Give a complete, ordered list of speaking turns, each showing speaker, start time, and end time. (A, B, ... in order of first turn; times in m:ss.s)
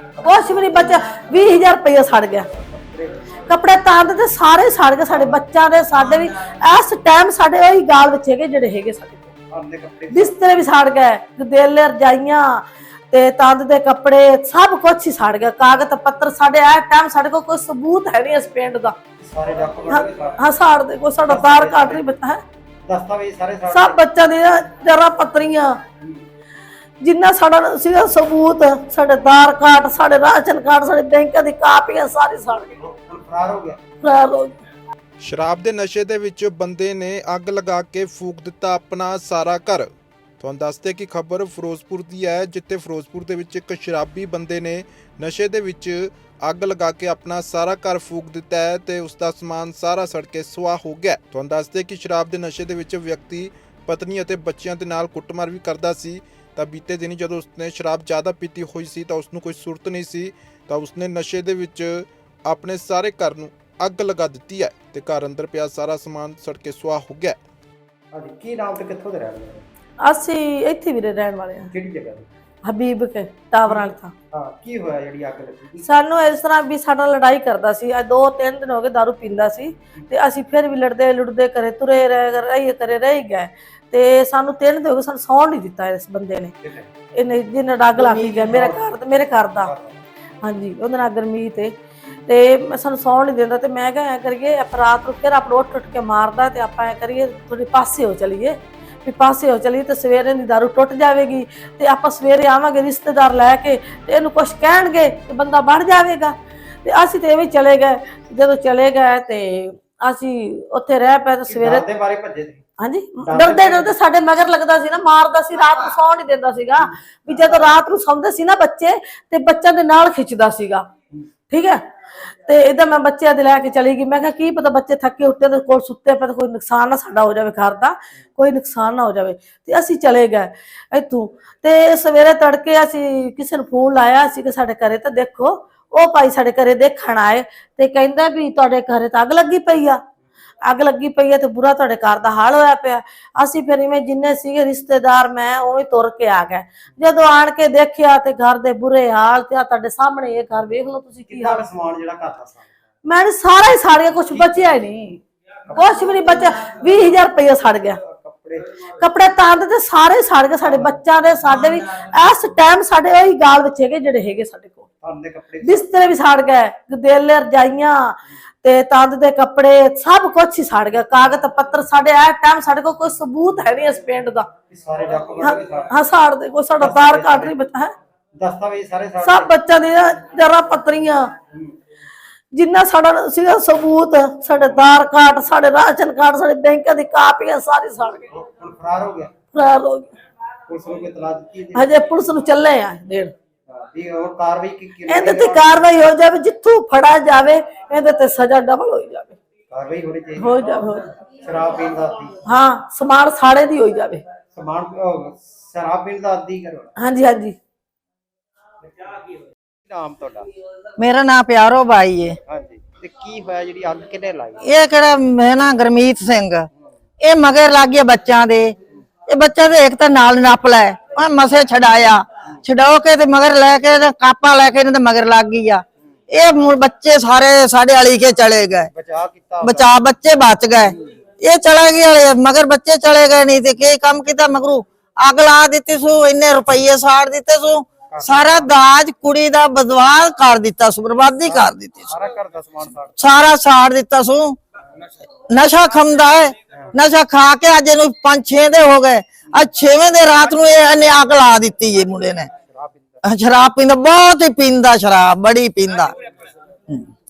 0:00.2-0:02.5 A
0:02.6-0:03.2 B
0:03.4-0:09.3 A
0:05.1-0:05.4 B
0:09.5-0:10.4 B
0:10.1-0:19.0 A
0:19.2-0:20.4 B
0:19.9-0:22.4 A
0:21.3-0:22.1 B
0:22.8-0:24.0 B
0:23.7-0:25.8 A
0:27.0-0:32.7 A
0:32.8-0:33.8 B
0:34.0-0:34.6 A
0:35.2-0:39.9 C
0:40.4-1:07.4 C
1:08.1-1:09.6 B
1:10.0-1:11.7 A
1:11.7-1:12.3 B
1:12.6-1:14.1 A
1:13.7-1:15.9 B
1:15.8-1:26.5 A
1:26.6-1:26.9 B
1:27.1-1:29.7 A
1:27.9-1:28.8 B
1:29.6-1:30.0 B
1:30.4-1:31.8 A
1:32.3-1:51.8 A
1:51.5-1:52.6 B
1:52.8-2:00.9 A
1:53.2-1:53.9 B
1:56.8-1:57.8 B
2:01.5-2:20.0 A
2:20.6-2:31.6 A
2:31.3-2:32.8 B
2:33.0-2:35.2 A
2:34.2-2:34.8 B
2:35.7-2:36.3 B
2:35.8-2:38.0 A
2:38.0-2:38.7 B
2:39.0-2:44.9 A
2:40.6-2:41.0 B
2:45.0-2:45.9 B
2:45.6-2:54.5 A
2:54.7-2:55.9 B
2:55.4-2:57.9 A
2:56.8-2:57.5 B
2:58.3-2:59.5 B
2:59.2-3:01.3 A
3:02.5-3:08.3 A
3:04.6-3:04.8 B
3:08.3-3:09.5 B
3:09.5-3:10.1 A
3:10.7-3:12.0 B
3:11.7-3:13.3 A
3:13.7-3:15.8 B
3:15.1-3:19.4 A
3:19.7-3:20.6 B
3:20.4-3:21.2 A
3:21.4-3:22.4 B
3:22.4-3:24.2 A
3:24.5-3:26.9 B
3:27.0-3:27.6 A
3:29.9-3:30.5 B
3:31.0-3:32.4 D
3:32.5-3:34.6 B
3:34.6-3:36.7 D
3:37.2-3:38.8 D
3:39.3-3:48.9 D
3:48.9-3:49.9 B
3:49.6-4:02.1 D
3:58.1-3:58.7 B
4:01.4-4:03.2 B
4:03.2-4:04.6 D
4:05.5-4:12.5 D
4:12.6-4:13.2 B
4:13.2-4:16.1 D